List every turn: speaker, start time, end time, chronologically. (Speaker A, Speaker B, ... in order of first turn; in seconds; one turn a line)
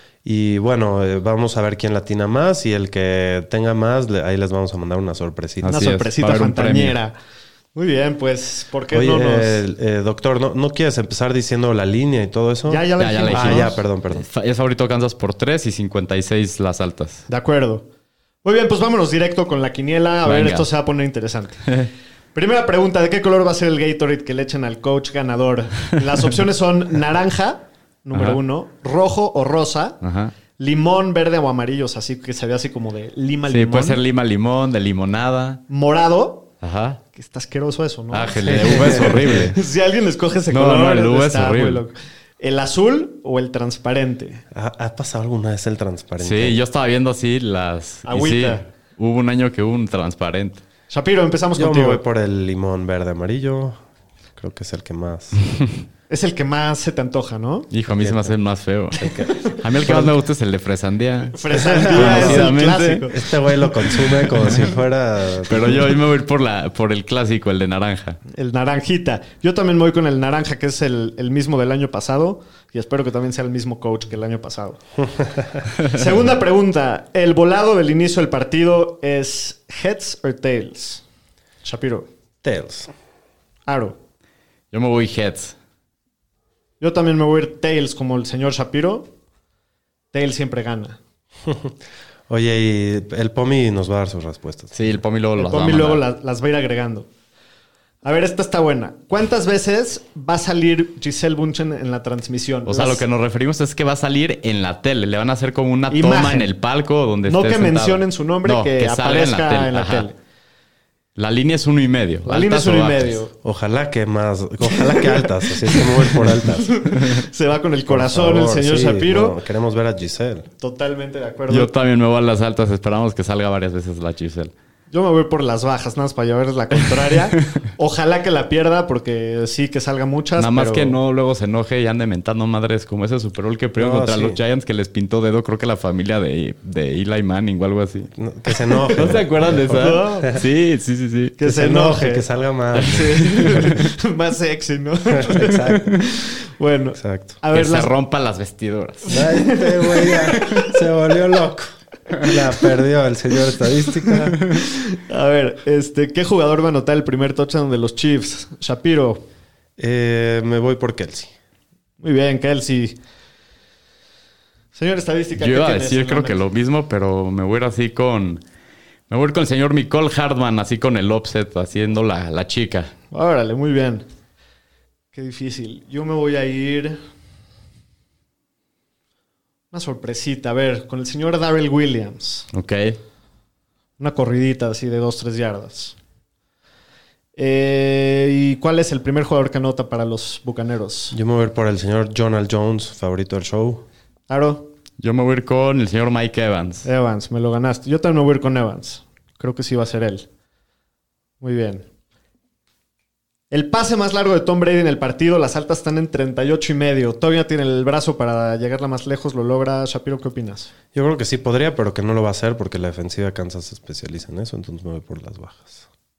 Speaker A: 0.2-5.8
Speaker B: 5.6-7.0
Speaker C: 5.7-7.2
Speaker C: 7.7-9.6
Speaker A: 8.9-14.3
Speaker C: 12.7-13.8
Speaker B: 13.0-17.2
Speaker C: 17.3-17.9
Speaker C: 18.4-21.7
Speaker B: 20.2-20.7
Speaker C: 22.3-30.0
Speaker B: 30.0-30.3
Speaker C: 30.6-34.0
Speaker B: 33.5-35.6
Speaker C: 35.7-36.5
Speaker B: 36.6-37.0
Speaker C: 37.1-44.4
Speaker B: 38.1-39.6
Speaker A: 38.5-39.3
Speaker B: 40.5-41.8
Speaker A: 44.5-46.6
Speaker B: 46.2-50.6
Speaker C: 48.0-48.6
Speaker C: 50.9-52.0
Speaker A: 51.5-53.8
Speaker A: 54.4-55.4
Speaker C: 56.1-57.7
Speaker B: 57.7-63.1
Speaker A: 58.0-58.3
Speaker A: 59.0-60.1
Speaker C: 59.3-59.6
Speaker C: 61.3-63.2
Speaker A: 61.5-62.5
Speaker A: 63.1-65.9
Speaker B: 64.4-64.7
Speaker B: 65.5-68.2
Speaker C: 68.3-74.8
Speaker A: 75.2-75.6
Speaker C: 75.8-81.0
Speaker C: 81.6-82.1
Speaker A: 82.4-82.9
Speaker C: 83.7-84.0
Speaker B: 84.7-85.5
Speaker C: 86.8-89.1
Speaker C: 90.1-91.0
Speaker A: 91.4-91.7
Speaker A: 92.3-94.9
Speaker B: 94.7-96.0
Speaker C: 95.4-97.1
Speaker C: 98.0-103.0
Speaker B: 102.7-110.1
Speaker C: 105.9-106.5
Speaker C: 107.2-110.2
Speaker B: 111.2-113.2
Speaker C: 112.2-113.3
Speaker A: 113.4-116.8
Speaker C: 114.7-119.4
Speaker A: 117.9-120.5
Speaker C: 120.6-121.7
Speaker B: 121.5-124.5
Speaker C: 124.9-130.9
Speaker B: 130.4-138.1
Speaker A: 133.8-134.4
Speaker A: 138.2-140.4
Speaker C: 138.5-140.3
Speaker B: 138.9-141.3
Speaker C: 141.4-142.2
Speaker A: 141.4-143.7
Speaker B: 142.8-143.7
Speaker C: 142.8-147.9
Speaker A: 145.1-146.0
Speaker A: 146.9-147.4
Speaker B: 147.5-149.2
Speaker C: 149.1-150.8
Speaker A: 149.1-154.4
Speaker C: 154.1-159.2
Speaker A: 159.8-161.3
Speaker C: 162.0-162.9
Speaker C: 164.7-166.4
Speaker B: 165.4-168.4
Speaker B: 169.1-172.9
Speaker C: 173.1-174.0
Speaker C: 175.1-177.0
Speaker C: 179.7-182.4
Speaker B: 182.5-183.0
Speaker C: 184.0-185.9
Speaker C: 187.3-191.2
Speaker A: 191.1-193.8
Speaker C: 194.3-194.7
Speaker B: 195.0-196.9
Speaker C: 196.8-200.3
Speaker C: 201.4-201.8
Speaker C: 203.5-210.7
Speaker A: 210.9-215.8